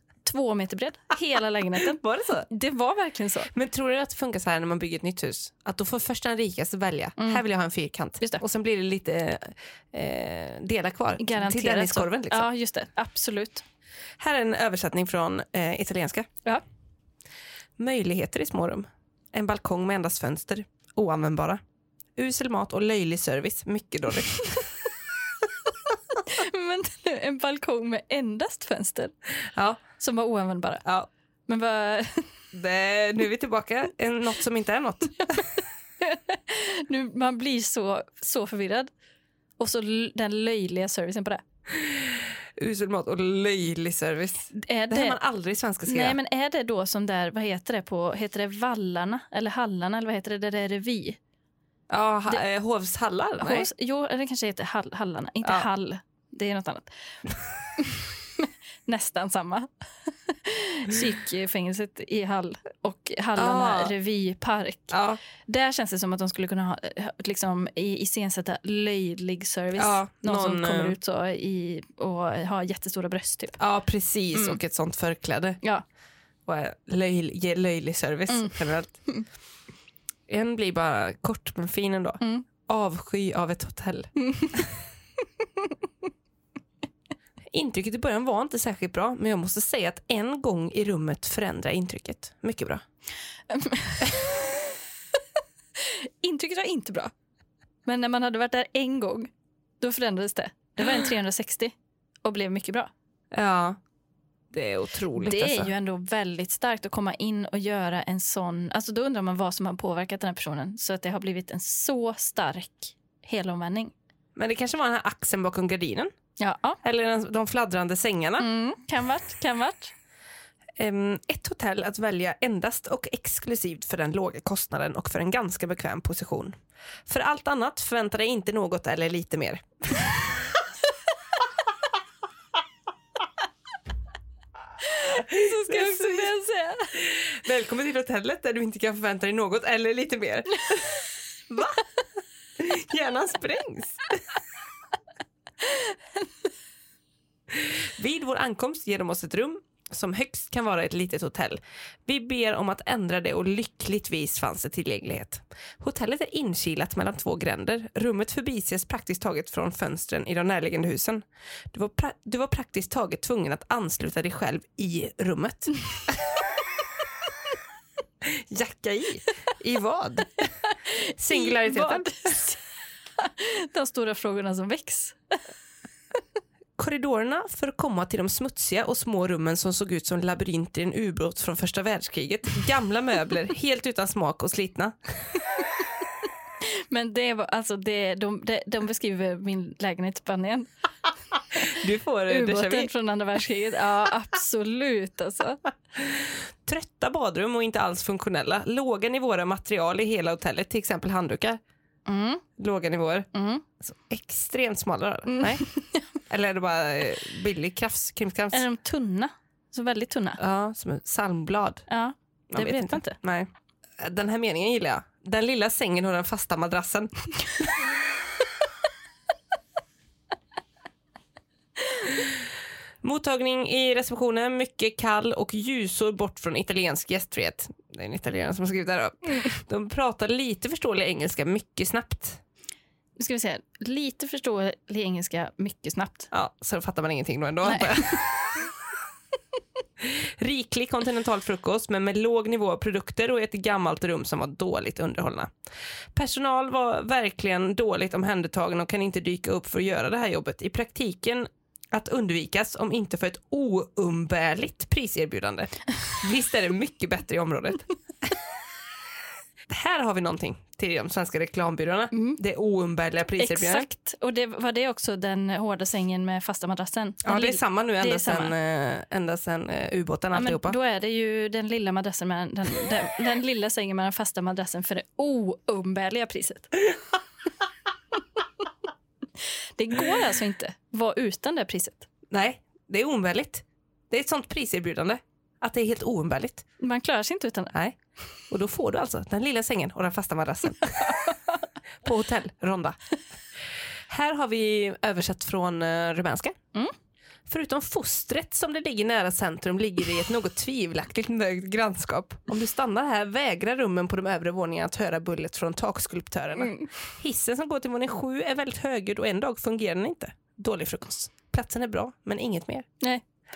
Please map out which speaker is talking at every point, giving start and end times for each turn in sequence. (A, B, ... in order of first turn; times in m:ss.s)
0:00.2-0:03.5 A
0:01.8-0:02.5 B
0:03.5-0:12.5 B
0:07.2-0:07.4 A
0:11.2-0:13.6 A
0:14.2-0:16.3 B
0:17.8-0:21.6 B
0:22.2-0:24.6 B
0:26.2-0:29.1 A
0:29.5-0:29.8 B
0:30.0-0:30.8 A
0:31.5-0:32.4 A
0:32.5-0:35.6 B
0:36.0-0:38.9 A
0:39.6-0:41.4 A
0:41.7-0:46.2 B
0:44.5-0:45.2 A
0:45.9-0:51.2 A
0:51.9-0:53.7 B
0:53.4-0:56.9 A
0:57.8-1:13.6 A
1:03.4-1:03.9 B
1:04.9-1:05.2 B
1:09.8-1:11.0 B
1:13.6-1:15.6 B
1:14.3-1:14.6 A
1:16.5-1:19.0 B
1:18.3-1:18.6 A
1:20.3-1:24.7 B
1:22.2-1:22.5 A
1:24.2-1:24.6 A
1:27.5-1:32.8 B
1:33.5-1:34.8 A
1:35.8-1:37.1 A
1:37.9-1:42.9 A
1:43.3-1:43.8 B
1:44.5-1:45.7 B
1:45.1-1:53.9 A
1:54.4-1:56.1 B
1:56.4-1:56.8 A
1:56.8-1:58.5 B
1:58.4-1:59.9 A
2:00.8-2:10.6 B
2:14.8-2:17.1 A
2:15.0-2:16.4 B
2:17.0-2:21.9 B
2:22.6-2:24.0 B
2:25.6-2:26.3 A
2:27.5-2:46.4 B
2:48.2-2:50.5 B
2:50.6-2:52.6 A
2:51.2-2:52.4 B
2:53.2-2:55.4 A
2:56.8-3:05.0 B
3:06.6-3:10.7 A
3:11.6-3:12.9 B
3:11.6-3:15.6 A
3:16.0-3:21.6 B
3:22.1-3:22.4 A
3:22.6-3:23.3 B
3:23.3-3:23.7 A
3:23.8-3:25.6 B
3:25.3-3:26.1 A
3:26.3-3:28.6 B
3:28.5-3:30.4 A
3:30.4-3:31.8 B
3:31.9-3:33.2 A
3:32.5-3:37.8 B
3:43.0-3:52.4 B
3:53.2-3:56.3 A
3:56.3-3:58.5 B
3:57.6-3:58.3 A
4:00.0-4:05.5 B
4:06.2-4:18.3 B
4:19.7-4:23.9 B
4:22.1-4:22.4 A
4:23.4-4:28.5 A
4:27.2-4:30.8 B
4:30.3-4:36.8 A
4:39.8-4:42.1 A
4:42.3-4:46.6 B
4:46.8-4:47.7 A
4:48.5-4:51.4 B
4:51.0-4:51.3 A
4:52.0-4:53.0 B
4:54.1-4:56.6 B
4:57.5-5:12.9 B
5:06.6-5:06.9 A
5:13.0-5:13.2 A